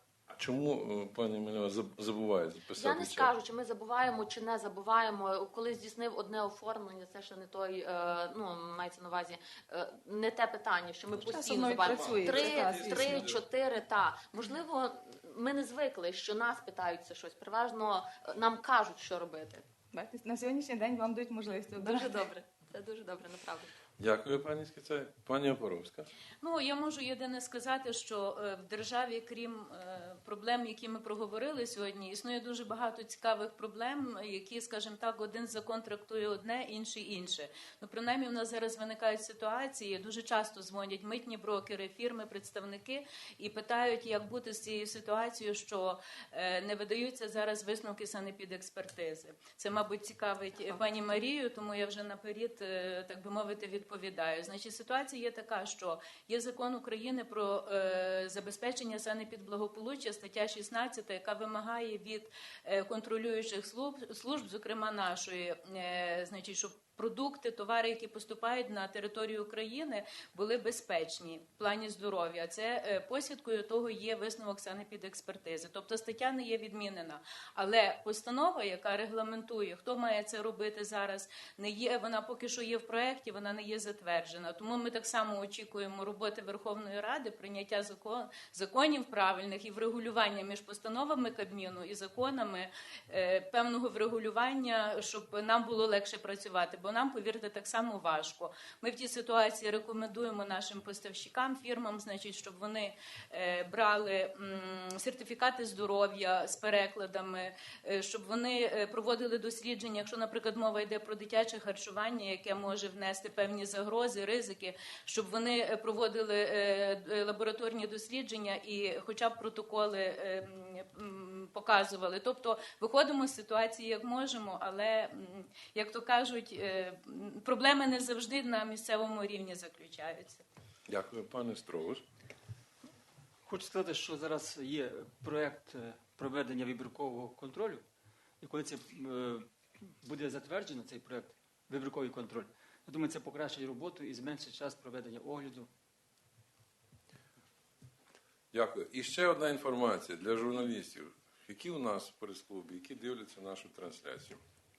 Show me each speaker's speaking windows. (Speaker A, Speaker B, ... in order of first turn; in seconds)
Speaker A: 0.3-3.3, 11.5-13.4, 24.0-26.1, 130.9-132.0, 148.5-154.4
Speaker B: 2.8-19.7, 21.8-23.7
Speaker C: 11.2-13.3, 19.9-22.2
Speaker D: 26.4-130.4
Speaker E: 133.4-137.8, 138.4-145.7